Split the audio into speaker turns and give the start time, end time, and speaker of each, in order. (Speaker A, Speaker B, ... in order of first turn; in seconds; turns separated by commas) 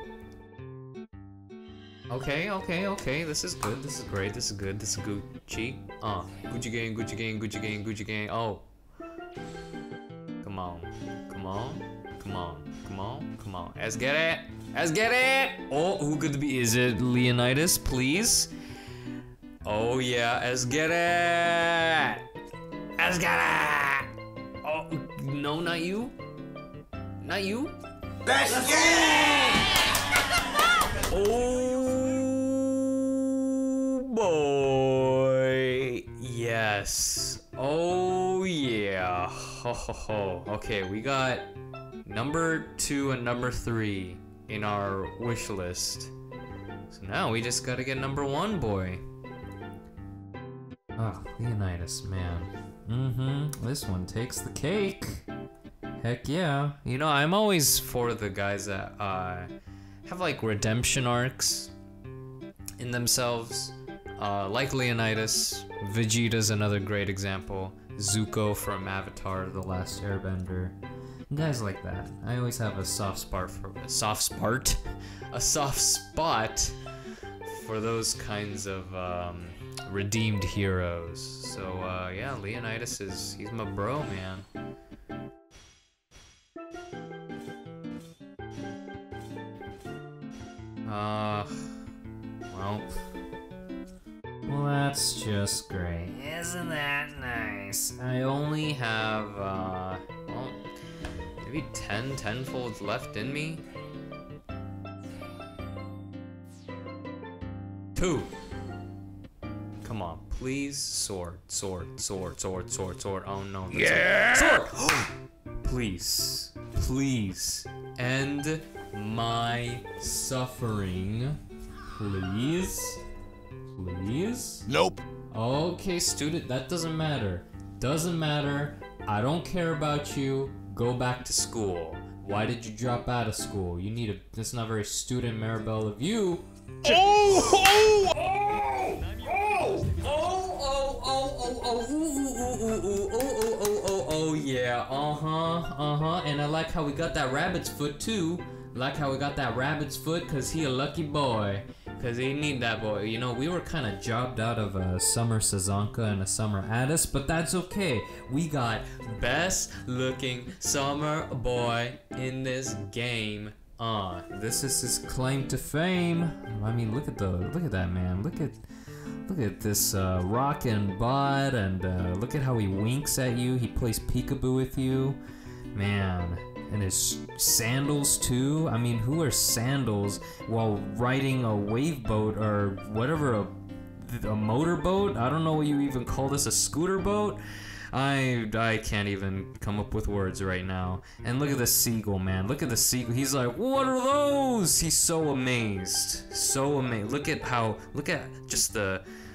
Speaker A: 2.1-8.7, Speaker A: 10.4-18.5, Speaker A: 19.6-22.3, Speaker A: 23.0-26.2, Speaker A: 27.2-27.8, Speaker B: 28.3-29.2, Speaker A: 28.6-29.7, Speaker A: 30.9-41.5, Speaker A: 42.0-46.1, Speaker A: 46.9-49.0, Speaker A: 51.0-55.3, Speaker A: 56.0-59.5, Speaker A: 60.0-61.7, Speaker A: 62.8-70.8, Speaker A: 71.3-76.8, Speaker A: 77.5-84.5, Speaker A: 90.9-91.8, Speaker A: 92.5-92.9, Speaker A: 94.5-100.7, Speaker A: 101.4-103.6, Speaker A: 108.0-108.3, Speaker A: 109.8-115.1, Speaker B: 113.9-114.6, Speaker A: 115.6-123.0, Speaker A: 123.7-124.7, Speaker B: 124.7-125.0, Speaker A: 125.3-168.7, Speaker B: 136.9-138.1, Speaker A: 169.2-175.2, Speaker A: 175.7-199.0